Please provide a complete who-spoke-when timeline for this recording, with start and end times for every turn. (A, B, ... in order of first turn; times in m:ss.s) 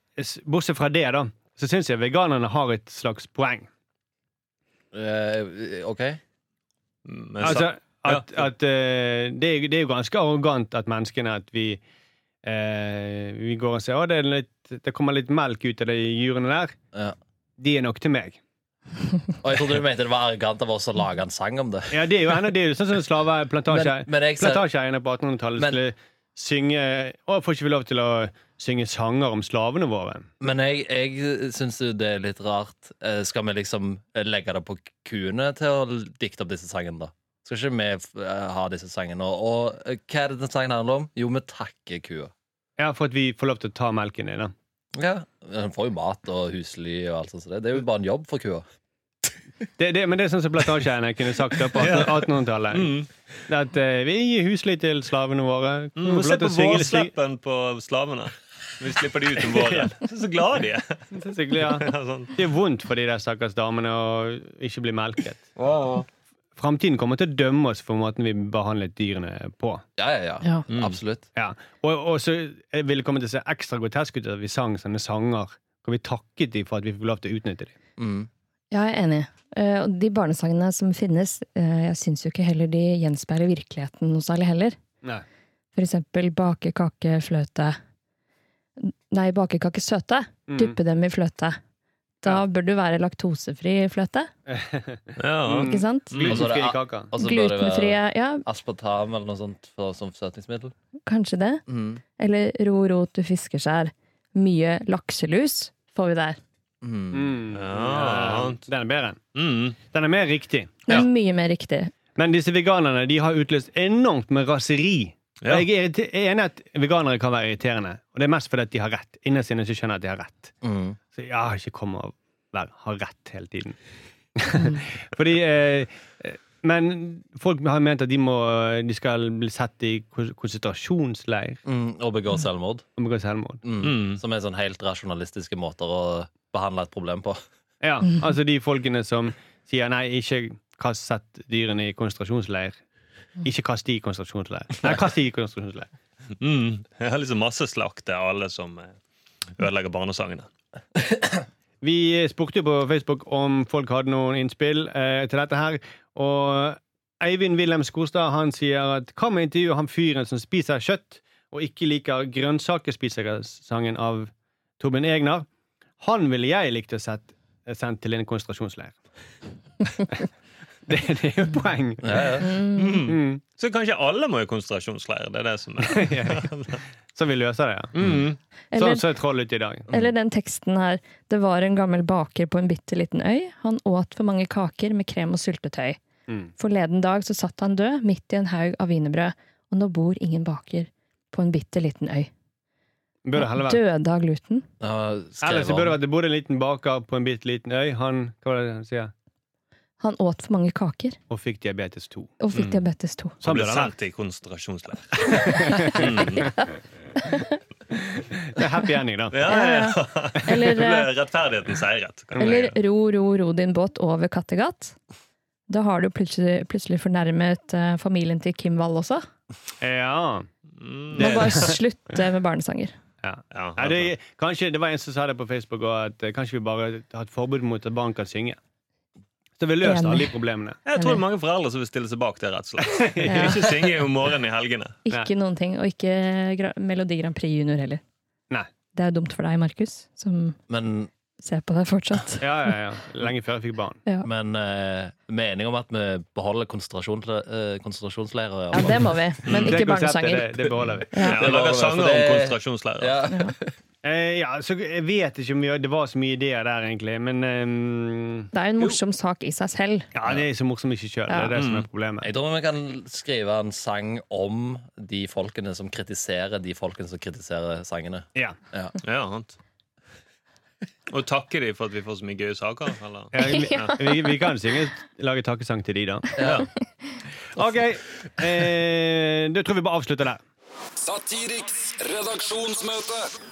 0:00.2-0:03.7 A
0:04.9-0:06.2 B
0:07.1-0:08.5 C
0:07.4-0:11.8 A
0:12.4-0:16.8 A
0:17.6-0:18.4 A
0:19.4-0:22.1 B
0:21.9-0:30.3 A
0:23.7-0:24.7 B
0:30.4-0:42.3 B
0:42.8-0:44.5 A
0:45.0-0:48.6 B
0:49.8-0:57.1 A
0:51.7-0:53.1 C
0:56.0-1:02.4 C
0:59.5-0:59.9 A
1:01.1-1:05.4 A
1:05.6-1:06.1 C
1:06.6-1:09.8 A
1:10.0-1:11.3 B
1:10.7-1:11.0 C
1:11.4-1:17.7 A
1:18.0-1:18.3 B
1:18.7-1:24.8 D
1:25.8-1:27.8 D
1:28.8-1:31.6 D
1:30.5-1:30.8 A
1:32.2-1:34.3 D
1:34.5-1:37.1 A
1:35.2-1:36.5 C
1:35.7-1:36.2 D
1:36.2-1:40.7 B
1:37.2-1:38.4 D
1:41.1-1:41.6 D
1:41.7-1:42.0 B
1:42.2-1:46.4 D
1:46.8-1:47.4 B
1:47.1-1:49.2 A
1:47.5-1:48.6 C
1:49.4-1:49.8 C
1:49.8-1:51.0 A
1:50.9-1:51.9 D
1:52.2-2:00.5 A
1:55.4-1:55.7 C
2:00.6-2:01.0 B
2:01.1-2:03.8 A
2:04.4-2:11.6 A
2:11.7-2:12.9 B
2:13.0-2:13.6 A
2:13.6-2:17.4 B
2:13.8-2:14.2 C
2:17.8-2:22.8 A
2:23.4-2:25.9 A
2:26.4-2:29.0 C
2:29.6-2:30.5 C
2:31.8-2:45.5 A
2:46.0-2:49.0 A
2:50.9-2:52.4 A
2:52.0-2:52.5 B
2:52.4-2:53.1 D
2:52.8-2:56.8 C
2:53.1-2:53.4 A
2:55.8-2:58.1 A
2:58.0-2:58.4 C
2:58.7-2:59.0 D
2:58.8-2:59.9 A
2:59.9-3:06.0 D
3:06.6-3:12.3 D
3:13.2-3:13.8 A
3:13.4-3:14.7 D
3:14.8-3:16.0 B
3:15.4-3:19.1 A
3:20.0-3:21.2 D
3:21.3-3:22.8 A
3:22.4-3:23.4 D
3:23.4-3:23.9 A
3:23.4-3:26.5 C
3:25.3-3:26.2 A
3:25.7-3:26.6 D
3:27.2-3:27.6 D
3:28.4-3:29.4 A
3:29.3-3:32.8 C
3:29.5-3:31.1 D
3:32.4-3:35.0 D
3:35.7-3:39.2 D
3:39.8-3:40.5 A
3:40.8-3:41.8 C
3:41.2-3:41.8 A
3:41.2-3:42.9 D
3:43.2-3:48.6 A
3:43.5-3:44.1 C
3:49.6-3:50.8 A
3:49.8-3:50.4 D
3:50.9-3:55.0 C
3:51.0-3:51.2 D
3:52.9-3:53.6 A
3:53.3-3:53.6 D
3:55.1-3:58.0 D
3:58.9-4:00.6 D
4:00.7-4:01.1 B
4:01.4-4:02.5 D
4:02.4-4:04.0 A
4:04.2-4:09.2 B
4:08.7-4:11.4 D
4:09.5-4:09.8 C
4:09.5-4:11.1 A
4:11.2-4:13.2 C
4:11.2-4:13.7 B
4:13.3-4:13.6 D
4:14.0-4:18.5 A
4:18.5-4:20.1 D
4:20.1-4:22.3 A
4:21.3-4:21.5 D
4:21.6-4:21.9 C
4:22.2-4:28.9 B
4:29.0-4:29.6 C
4:31.1-4:33.9 C
4:33.3-4:36.3 A
4:33.4-4:34.5 D
4:36.4-4:36.7 B
4:36.4-4:36.7 C
4:37.5-4:40.4 A
4:41.0-4:43.3 E